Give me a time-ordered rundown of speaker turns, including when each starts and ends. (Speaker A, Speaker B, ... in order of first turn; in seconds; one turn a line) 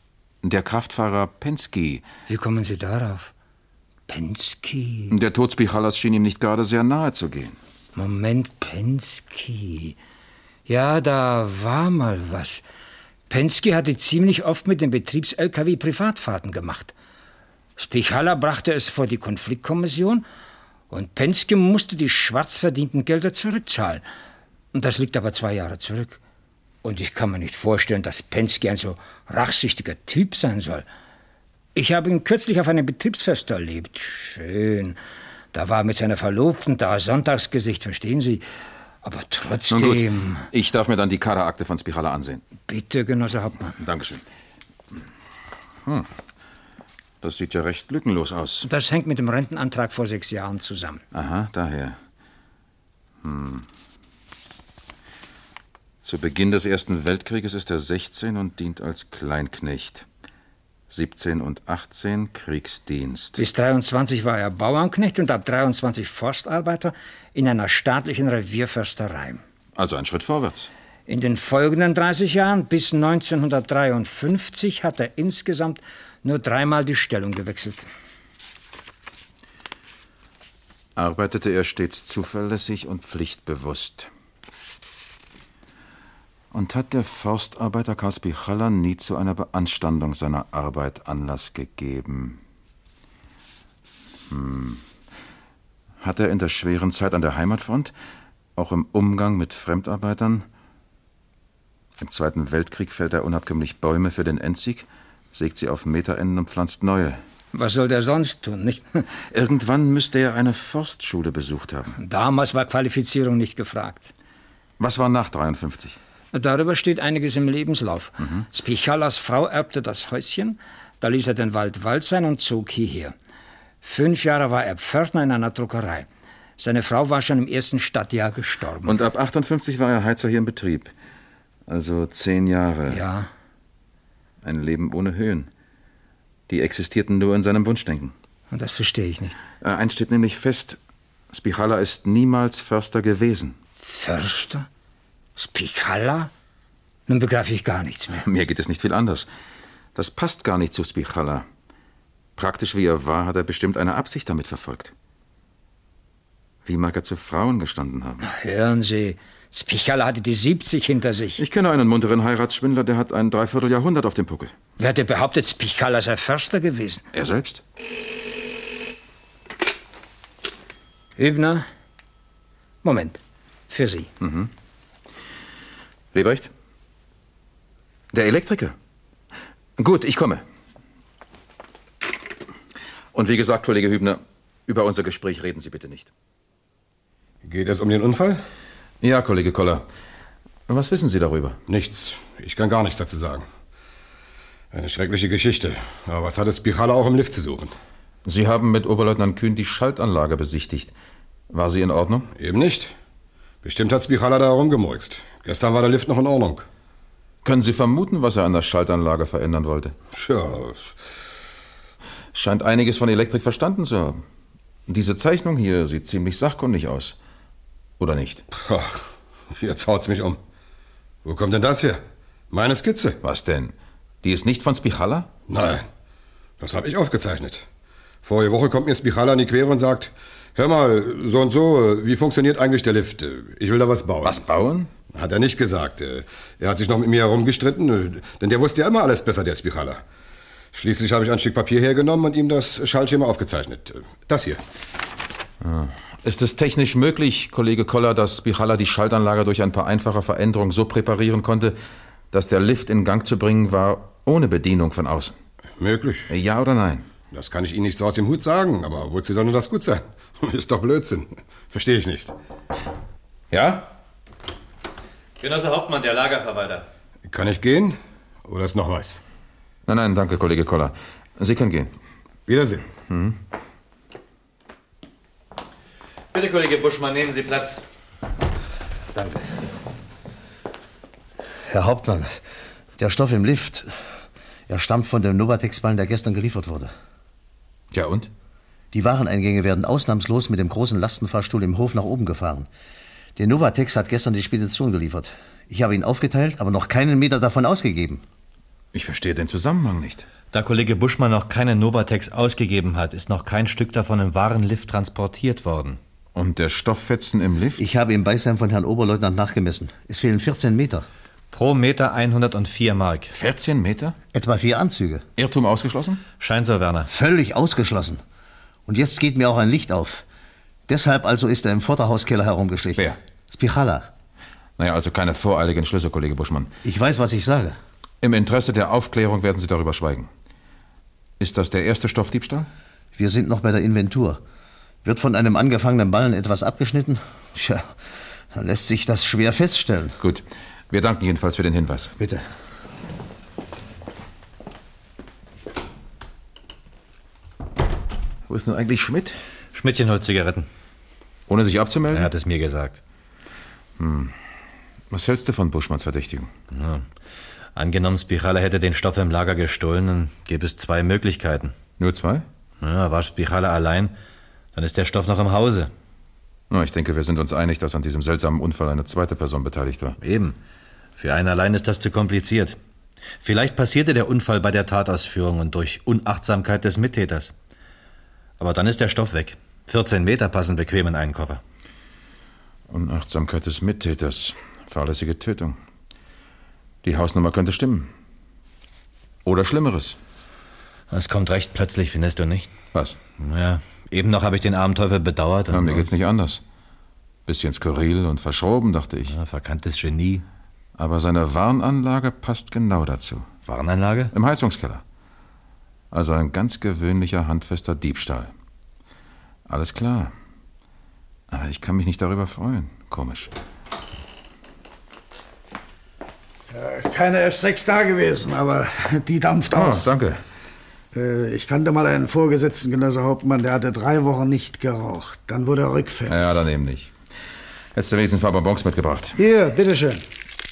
Speaker A: 0.4-2.0
Speaker B: 2.3-3.3
Speaker B: 4.1-5.1
Speaker A: 5.1-7.6
Speaker B: 7.9-9.9
Speaker B: 10.7-12.6
Speaker B: 13.3-16.9
Speaker B: 17.8-20.2
Speaker B: 20.9-24.0
Speaker B: 24.7-26.2
Speaker B: 26.8-30.9
Speaker B: 31.8-35.0
Speaker B: 35.5-38.4
Speaker B: 39.0-40.5
Speaker A: 39.7-42.4
Speaker B: 42.7-43.8
Speaker A: 43.8-44.2
Speaker A: 47.2-48.7
Speaker B: 48.6-51.0
Speaker A: 51.1-52.0
Speaker A: 53.2-53.6
Speaker A: 56.0-60.1
Speaker A: 60.9-63.4
Speaker B: 63.4-69.4
Speaker A: 69.8-70.7
Speaker B: 71.1-77.9
Speaker A: 81.0-84.1
Speaker A: 86.5-92.4
Speaker A: 94.3-94.8
Speaker A: 96.0-97.9
Speaker A: 98.6-100.4
Speaker A: 102.0-107.2
Speaker B: 107.5-109.0
Speaker A: 109.3-112.0
Speaker B: 112.0-114.1
Speaker A: 114.8-116.0
Speaker B: 116.3-123.1
Speaker A: 118.2-118.5
Speaker B: 123.8-126.1
Speaker B: 126.6-129.0
Speaker A: 128.8-130.9
Speaker A: 131.7-133.0
Speaker B: 132.9-133.3
Speaker A: 134.4-135.5
Speaker A: 136.5-138.1
Speaker B: 138.5-139.4
Speaker A: 139.6-140.8
Speaker A: 141.3-143.6
Speaker B: 143.8-144.7
Speaker B: 145.4-146.3
Speaker B: 147.1-148.2
Speaker A: 148.1-149.3
Speaker A: 149.9-151.4
Speaker A: 152.4-154.9
Speaker A: 156.7-158.2
Speaker B: 158.2-161.4
Speaker A: 161.4-164.5
Speaker B: 164.8-167.1
Speaker A: 167.1-167.6
Speaker B: 171.2-171.7
Speaker B: 172.8-174.1
Speaker A: 174.2-174.5
Speaker A: 176.1-176.5
Speaker A: 178.1-178.8
Speaker A: 179.8-180.4
Speaker A: 183.1-186.1
Speaker C: 187.4-188.4
Speaker A: 189.0-189.9
Speaker A: 190.7-191.6
Speaker C: 191.7-193.4
Speaker C: 194.7-197.7
Speaker A: 198.3-200.9
Speaker A: 201.5-202.3
Speaker C: 202.3-202.9
Speaker C: 203.6-206.6
Speaker A: 207.4-209.9
Speaker C: 210.1-210.9
Speaker A: 212.3-214.2
Speaker A: 214.9-217.2
Speaker A: 218.0-218.4
Speaker C: 218.5-219.0
Speaker C: 219.6-220.4
Speaker C: 221.2-223.2
Speaker A: 223.2-225.3
Speaker C: 225.5-225.9
Speaker C: 226.6-227.7
Speaker C: 228.2-234.4
Speaker A: 234.2-234.9
Speaker C: 235.1-240.0
Speaker C: 240.7-244.6
Speaker A: 245.6-251.8
Speaker A: 252.3-255.4
Speaker C: 255.8-256.3
Speaker A: 256.3-257.1
Speaker C: 257.3-262.3
Speaker A: 263.5-263.9
Speaker D: 265.4-266.9
Speaker C: 267.3-269.2
Speaker A: 269.9-271.9
Speaker C: 272.5-272.8
Speaker A: 273.1-273.4
Speaker D: 276.3-277.8
Speaker E: 281.7-282.4
Speaker E: 283.0-283.9
Speaker E: 284.7-286.9
Speaker A: 287.9-288.3
Speaker E: 288.9-292.7
Speaker E: 293.4-298.2
Speaker A: 298.9-300.3
Speaker D: 300.5-306.0
Speaker A: 306.4-307.8
Speaker E: 307.8-311.1
Speaker D: 311.5-313.3
Speaker A: 313.3-314.1
Speaker E: 314.3-315.2
Speaker A: 315.4-316.2
Speaker D: 316.3-317.1
Speaker E: 317.1-318.2
Speaker E: 318.9-320.2
Speaker E: 320.9-324.1
Speaker A: 324.8-326.7
Speaker E: 326.8-327.8
Speaker A: 328.2-330.3
Speaker A: 331.4-332.7
Speaker E: 333.1-334.4
Speaker E: 335.1-337.9
Speaker E: 338.5-340.1
Speaker A: 340.2-342.1
Speaker A: 348.5-349.4
Speaker D: 349.7-350.7
Speaker A: 351.5-352.3
Speaker D: 352.1-353.0
Speaker A: 354.0-354.3
Speaker A: 355.1-356.5
Speaker D: 356.7-357.1
Speaker D: 357.8-361.8
Speaker A: 362.0-362.4
Speaker D: 362.8-364.1
Speaker D: 364.8-365.9
Speaker A: 366.7-370.2
Speaker D: 370.2-370.6
Speaker D: 371.2-372.8
Speaker D: 373.4-377.5
Speaker D: 378.6-381.6
Speaker A: 382.9-385.8
Speaker A: 387.0-388.1
Speaker A: 389.4-390.2
Speaker D: 391.1-392.7
Speaker D: 393.4-396.1
Speaker A: 395.7-396.6
Speaker A: 397.5-399.3
Speaker D: 399.3-400.4
Speaker A: 401.0-403.5
Speaker D: 403.7-404.3
Speaker A: 404.3-405.0
Speaker A: 406.1-408.5
Speaker A: 409.7-410.3
Speaker A: 411.5-413.5
Speaker F: 416.7-420.1
Speaker A: 419.7-420.4
Speaker F: 421.1-426.4
Speaker A: 426.3-427.1
Speaker A: 427.9-429.4
Speaker F: 429.4-430.2